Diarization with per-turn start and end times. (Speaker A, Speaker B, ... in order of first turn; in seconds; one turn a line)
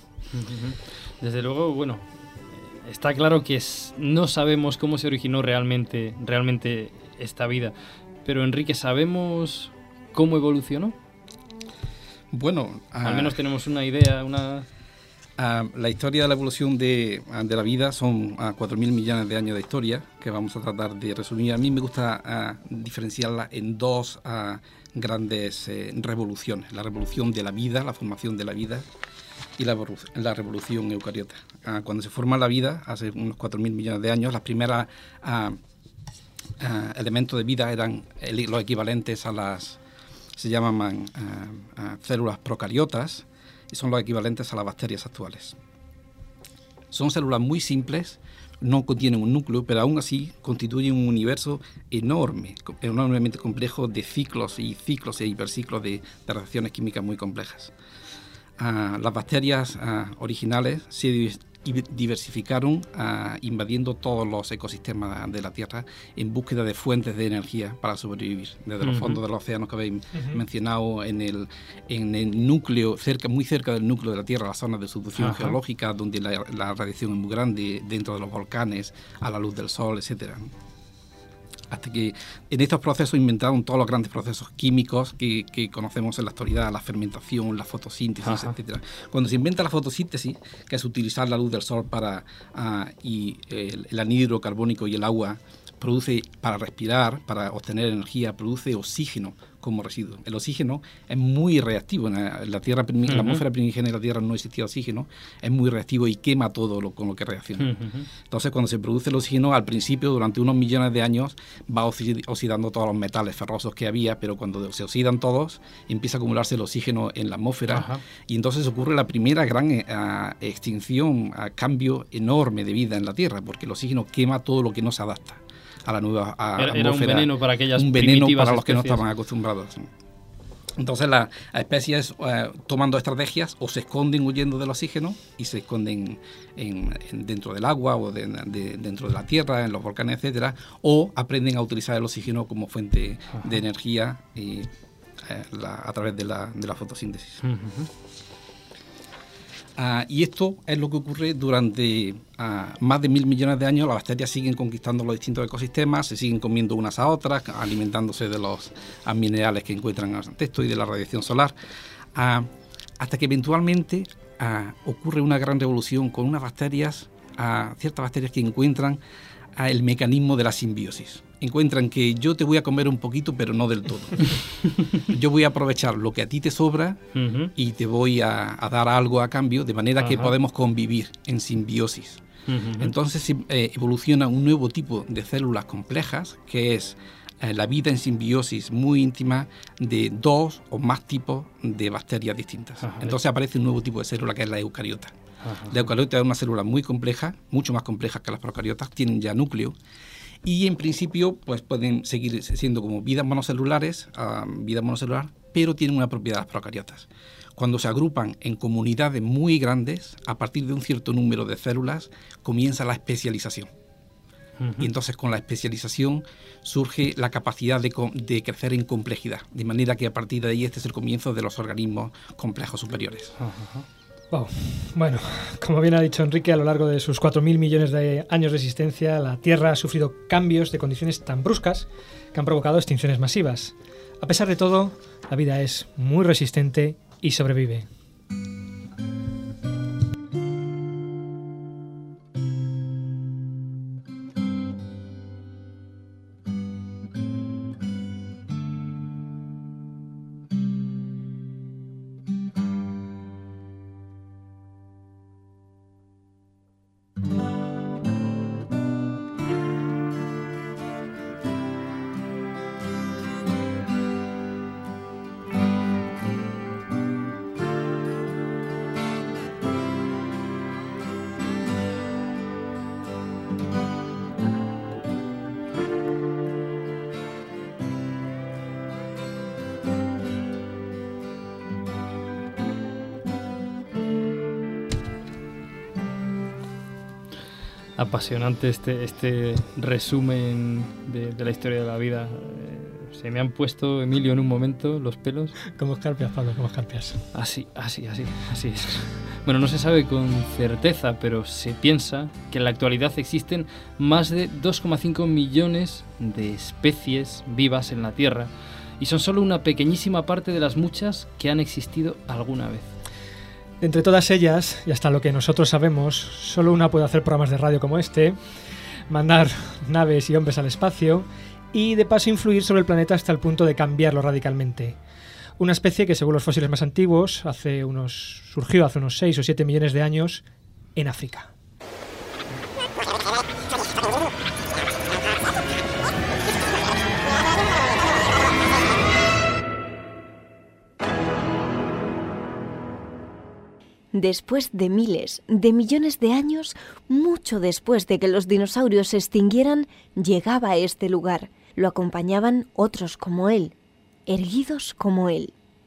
Speaker A: 0.3-10.9
Speaker B: 12.3-13.4
Speaker A: 13.0-14.7
Speaker B: 15.4-28.9
Speaker B: 29.6-35.6
Speaker B: 36.6-39.8
Speaker B: 40.4-45.6
Speaker B: 46.9-57.7
Speaker B: 58.6-80.5
Speaker A: 68.8-69.2
Speaker C: 70.1-70.4
Speaker A: 75.2-75.6
Speaker B: 81.7-107.7
Speaker A: 88.2-88.5
Speaker A: 103.1-103.4
Speaker A: 107.6-108.1
Speaker B: 108.3-129.9
Speaker A: 117.7-118.0
Speaker A: 126.6-129.0
Speaker B: 130.8-147.4
Speaker A: 147.4-147.9
Speaker B: 149.8-161.5
Speaker B: 162.1-169.0
Speaker B: 169.6-174.4
Speaker B: 175.0-177.0
Speaker A: 177.1-177.5
Speaker B: 177.5-182.2
Speaker A: 180.0-180.3
Speaker A: 182.5-182.9
Speaker B: 182.8-195.1
Speaker A: 192.8-193.2
Speaker A: 195.4-195.8
Speaker B: 195.7-199.8
Speaker B: 200.4-213.7
Speaker A: 214.6-214.9
Speaker B: 214.8-223.3
Speaker A: 223.4-223.8
Speaker C: 224.3-237.9
Speaker A: 288.0-295.6
Speaker C: 295.7-297.2
Speaker A: 297.3-312.9
Speaker C: 313.8-318.4
Speaker C: 319.1-325.0
Speaker C: 325.6-330.4
Speaker C: 330.9-331.5
Speaker D: 344.1-353.7
Speaker D: 354.3-355.5